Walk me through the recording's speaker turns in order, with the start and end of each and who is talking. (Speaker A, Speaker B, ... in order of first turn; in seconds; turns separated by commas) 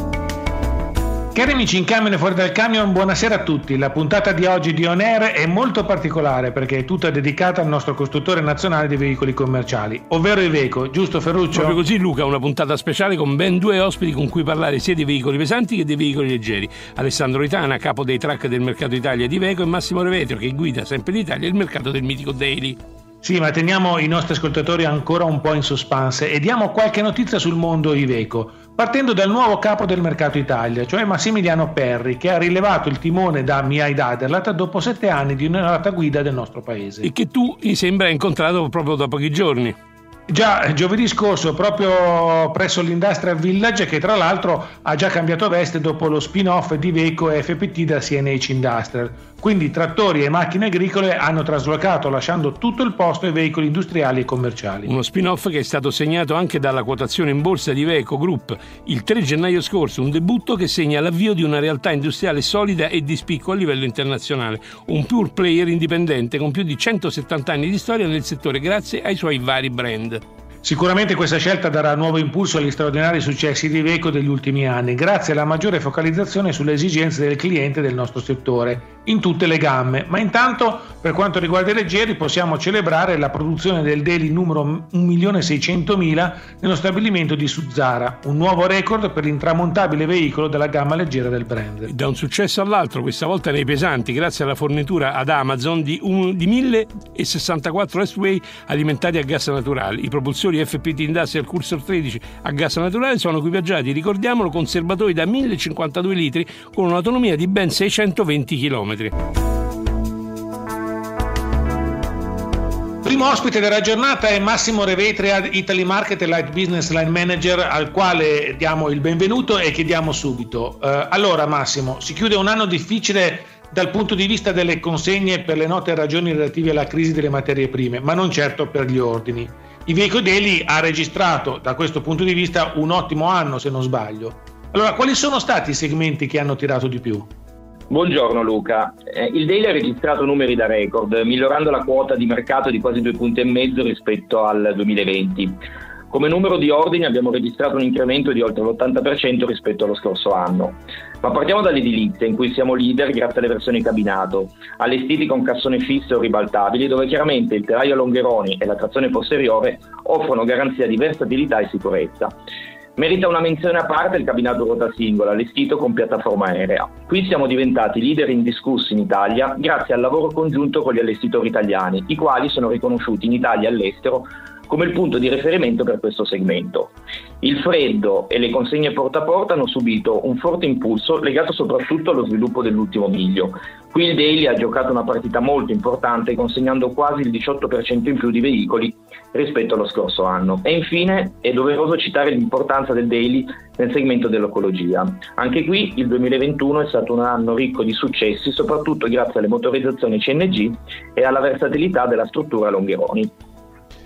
Speaker A: 1.3-11.8, Speaker B: 11.5-22.8, Speaker A: 23.2-37.1, Speaker B: 37.0-39.8, Speaker A: 40.3-54.9, Speaker B: 54.9-70.2, Speaker A: 70.6-91.9, Speaker B: 91.9-109.1, Speaker A: 113.0-137.3, Speaker C: 137.9-145.6, Speaker C: 146.1-162.3, Speaker C: 163.0-203.3